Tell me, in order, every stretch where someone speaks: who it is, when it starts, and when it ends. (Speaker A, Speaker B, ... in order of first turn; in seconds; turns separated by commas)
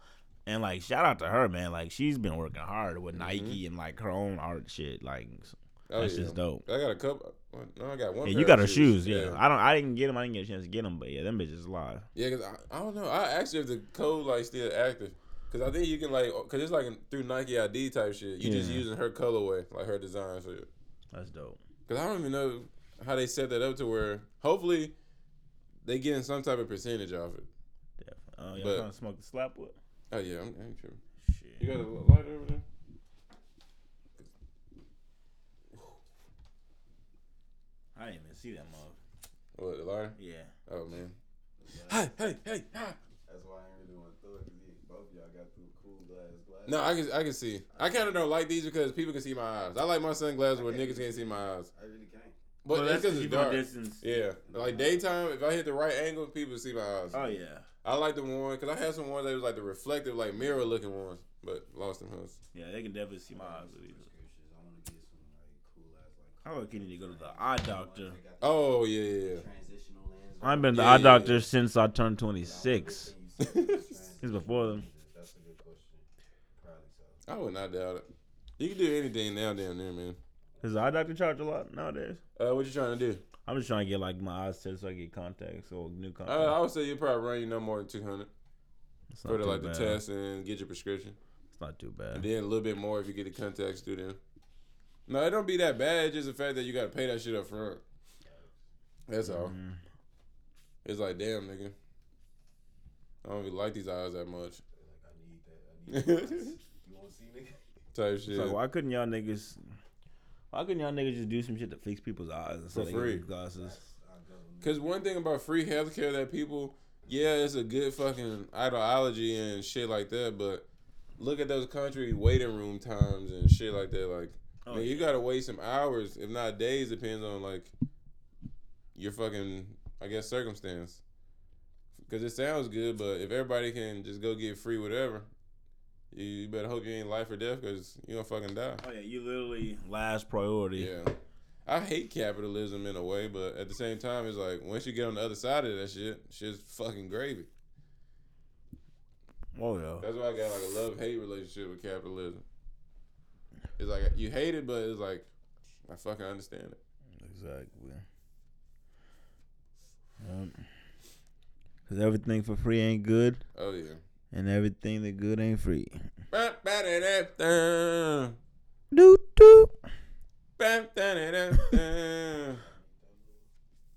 Speaker A: 0.5-6.6, Speaker B: 3.1-3.6, Speaker B: 5.9-9.4, Speaker A: 8.2-12.1, Speaker B: 12.1-20.7, Speaker A: 18.4-18.9, Speaker A: 21.1-21.6, Speaker B: 21.9-24.9, Speaker B: 25.8-27.5, Speaker A: 28.0-29.8, Speaker B: 28.5-28.9, Speaker B: 30.1-31.0, Speaker A: 31.2-31.7, Speaker B: 31.6-32.6, Speaker A: 37.9-39.0, Speaker B: 39.5-40.1, Speaker A: 40.1-40.5, Speaker B: 40.7-41.1, Speaker C: 41.6-42.2, Speaker B: 41.9-43.0, Speaker C: 43.2-47.0, Speaker B: 46.6-51.7, Speaker C: 47.7-48.0, Speaker C: 50.5-52.4, Speaker B: 52.6-57.2, Speaker A: 52.7-54.0, Speaker C: 54.1-55.0, Speaker C: 57.1-57.4, Speaker A: 57.1-57.6, Speaker B: 57.8-62.4, Speaker C: 60.4-60.8, Speaker A: 62.5-64.1, Speaker C: 63.3-71.2, Speaker A: 66.4-68.2, Speaker B: 68.4-69.4, Speaker A: 70.4-73.1, Speaker B: 70.7-71.5, Speaker C: 72.4-77.2, Speaker B: 73.4-73.8, Speaker A: 74.2-74.8, Speaker B: 77.2-80.2, Speaker C: 80.5-80.9, Speaker A: 80.6-82.2, Speaker B: 82.4-83.2, Speaker A: 83.4-86.6, Speaker B: 86.2-88.3, Speaker A: 89.1-90.0, Speaker B: 89.2-91.2, Speaker A: 91.5-92.3, Speaker B: 92.1-94.2, Speaker B: 95.1-97.8, Speaker C: 98.2-98.6, Speaker B: 99.1-99.5, Speaker A: 99.2-99.8, Speaker B: 100.8-101.7, Speaker B: 103.2-104.6, Speaker C: 104.8-107.6, Speaker B: 105.9-106.5, Speaker B: 107.9-108.6, Speaker A: 108.3-109.6, Speaker A: 110.5-113.8, Speaker B: 112.7-113.2, Speaker C: 113.5-114.8, Speaker B: 114.6-120.7, Speaker B: 121.2-127.7, Speaker A: 124.6-125.1, Speaker B: 128.9-131.0, Speaker B: 132.1-135.3, Speaker B: 136.1-138.8, Speaker A: 138.8-140.9, Speaker B: 140.8-141.1, Speaker B: 141.7-147.5, Speaker A: 149.5-150.1, Speaker B: 150.0-152.4, Speaker B: 153.8-155.3, Speaker B: 155.9-156.8, Speaker A: 157.2-158.0, Speaker A: 160.2-160.7, Speaker A: 161.9-163.4, Speaker B: 163.5-164.0, Speaker A: 164.3-166.1, Speaker B: 166.3-168.4, Speaker A: 168.9-169.8, Speaker B: 170.6-172.6, Speaker C: 172.6-173.5